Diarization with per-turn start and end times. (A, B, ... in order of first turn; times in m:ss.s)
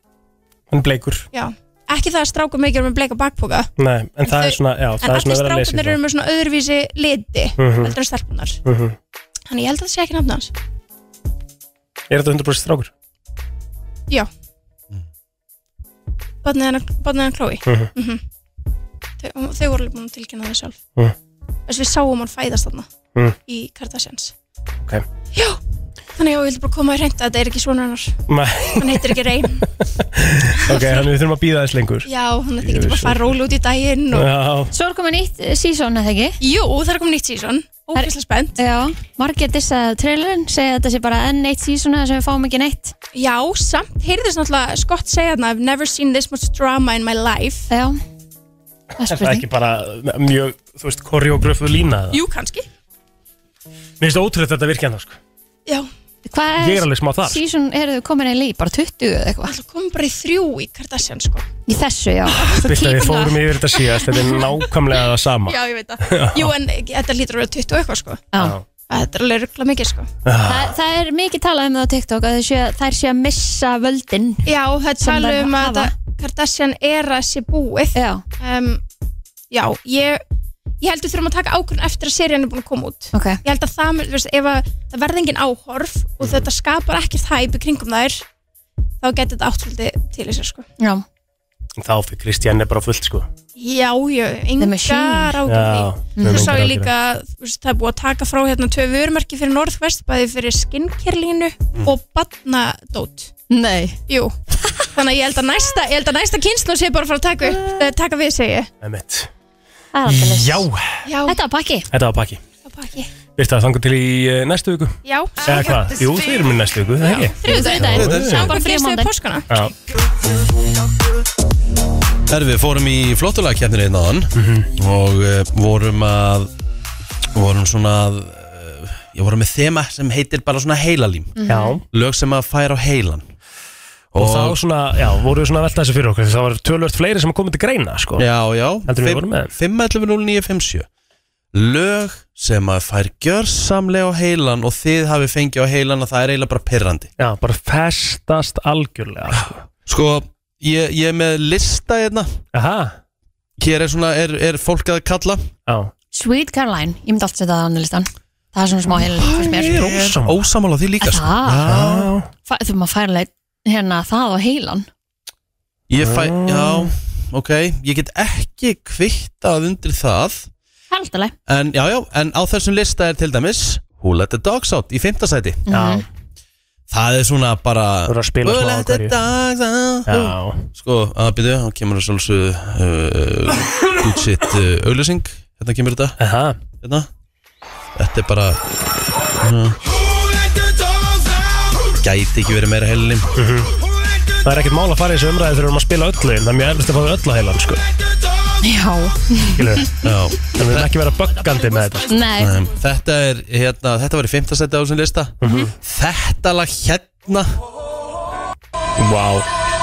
0:00.7-0:01.3 A
0:01.3-0:03.7 B
0:03.8-0:06.0 A
0:04.2-0:08.6 B
0:07.6-0:08.0 A
0:08.6-0:09.0 A
0:09.5-0:10.5 B
0:12.1-0:12.9 A
0:16.4-0:18.2 B
0:19.2-0:20.8 B
0:21.7-0:22.9 B
0:23.4-0:24.3 B
0:25.3-0:25.6 B
0:26.2-0:28.2 B
0:28.3-0:29.2 A
0:28.8-0:29.6 B
0:29.8-0:32.1 A
0:30.7-0:31.1 B
0:32.0-0:34.3 B
0:32.6-0:33.3 A
0:34.1-0:34.7 A
0:34.7-0:36.4 C
0:36.4-0:38.6 B
0:38.0-0:43.0 C
0:43.1-0:47.7 B
0:47.7-0:48.0 C
0:49.0-0:49.4 C
0:49.1-0:52.2 A
0:52.1-0:52.7 B
0:54.0-0:55.2 A
0:56.3-0:59.6 C
0:56.6-0:57.4 A
0:59.4-1:01.4 B
1:01.7-1:04.2 C
1:02.6-1:06.5 A
1:05.4-1:08.2 B
1:08.4-1:08.6 A
1:08.9-1:10.1 B
1:10.2-1:10.7 A
1:10.4-1:14.5 C
1:14.4-1:18.8 B
1:15.0-1:15.9 C
1:18.0-1:18.2 C
1:19.5-1:20.2 B
1:20.8-1:28.3 B
1:23.1-1:23.4 C
1:29.0-1:30.7 B
1:30.8-1:31.0 C
1:31.8-1:33.3 A
1:33.6-1:43.3 B
1:34.6-1:35.4 C
1:35.4-1:36.9 A
1:36.2-1:36.6 C
1:43.5-1:44.0 C
1:44.1-1:44.4 B
1:44.9-1:48.7 B
1:47.4-1:47.8 C
1:48.8-1:49.3 A
1:49.9-1:50.7 C
1:50.1-1:51.0 A
1:51.1-1:51.4 B
1:51.3-1:51.9 C
1:51.9-1:52.4 A
1:52.6-1:53.1 B
1:53.4-1:58.5 A
1:55.0-1:56.0 B
1:57.1-1:59.4 B
1:57.4-1:59.1 C
1:57.9-1:58.4 D
2:02.3-2:06.5 D
2:04.3-2:04.7 A
2:07.3-2:11.3 D
2:11.4-2:11.7 C
2:11.5-2:11.8 A
2:11.9-2:13.3 D
2:14.1-2:14.6 D
2:14.2-2:18.3 A
2:18.2-2:20.9 D
2:18.9-2:19.5 A
2:21.5-2:27.1 D
2:27.2-2:29.6 A
2:29.9-2:32.3 D
2:32.5-2:33.0 A
2:33.6-2:35.4 D
2:35.7-2:35.9 A
2:36.1-2:39.7 C
2:39.2-2:40.4 A
2:39.3-2:42.1 D
2:41.0-2:41.7 C
2:41.6-2:42.3 A
2:42.5-2:44.9 C
2:45.9-2:50.5 D
2:46.0-2:46.9 A
2:50.9-2:51.3 C
2:51.5-2:55.6 D
2:55.7-2:56.0 C
2:55.7-2:56.0 A
2:56.9-3:06.2 D
2:58.1-2:59.2 A
3:00.1-3:00.7 A
3:06.2-3:06.6 A
3:06.8-3:07.1 D
3:08.0-3:08.6 D
3:09.4-3:09.8 D
3:12.0-3:13.3 D
3:13.4-3:13.7 A
3:14.4-3:17.8 A
3:18.6-3:19.8 C
3:19.6-3:19.9 A
3:20.0-3:20.9 D
3:20.6-3:22.1 A
3:22.1-3:22.5 C
3:22.4-3:27.5 D
3:25.4-3:25.7 A
3:29.0-3:29.5 A